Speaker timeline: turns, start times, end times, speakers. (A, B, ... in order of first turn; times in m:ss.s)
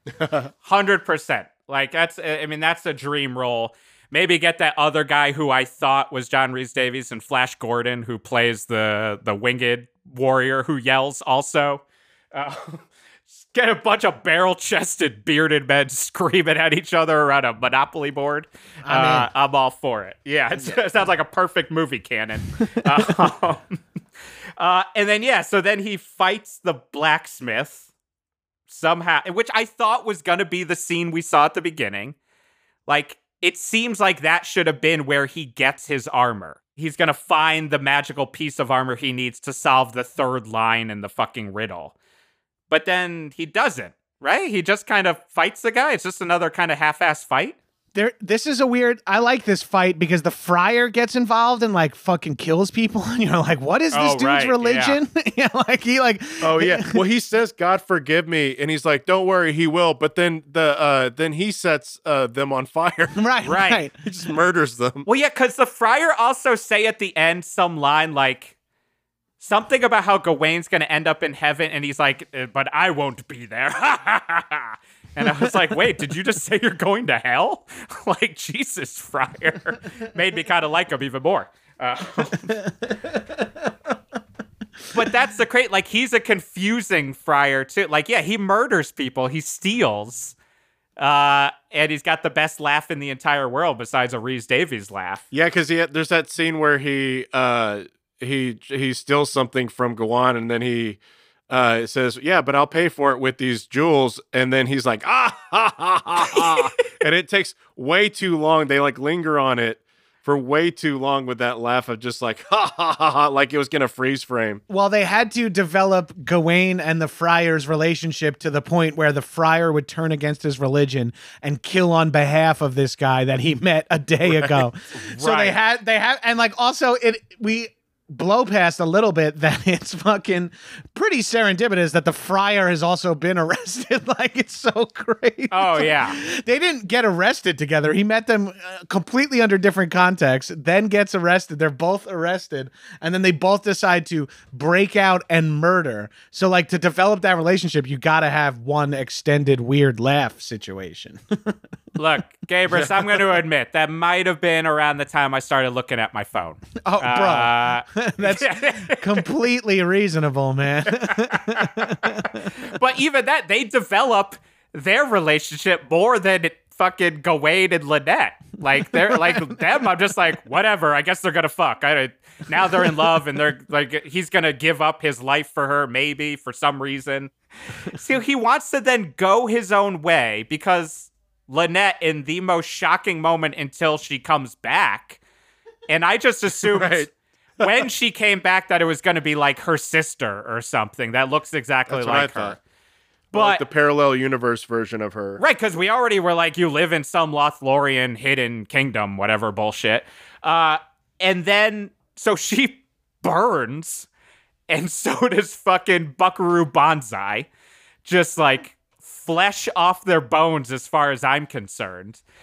0:00.6-0:23.8 A
0:18.8-0:19.3 B
0:24.6-0:27.9 A
0:28.7-0:32.2 A
0:32.9-0:41.9 A
0:42.7-0:47.6 A
0:47.9-0:57.0 B
0:53.9-0:55.0 A
0:56.4-1:03.2 C
1:03.2-1:04.3 B
1:03.4-1:03.8 A
1:04.1-1:05.1 C
1:05.0-1:08.5 A
1:09.4-1:22.5 A
1:22.4-1:23.7 B
1:24.9-1:30.3 A
1:31.0-1:35.2 A
1:35.3-1:54.6 C
1:54.7-2:31.6 B
2:04.2-2:04.6 C
2:05.0-2:05.6 A
2:15.5-2:16.2 A
2:32.0-2:39.3 A
2:32.7-2:33.1 C
2:36.8-2:42.4 B
2:41.0-2:57.3 A
2:57.8-3:05.2 A
3:05.9-3:07.1 A
3:06.6-3:07.1 C
3:07.6-3:12.6 A
3:11.9-3:12.6 C
3:13.3-3:15.4 C
3:13.3-3:13.6 A
3:15.4-3:24.1 A
3:24.7-3:27.5 A
3:28.0-3:32.2 A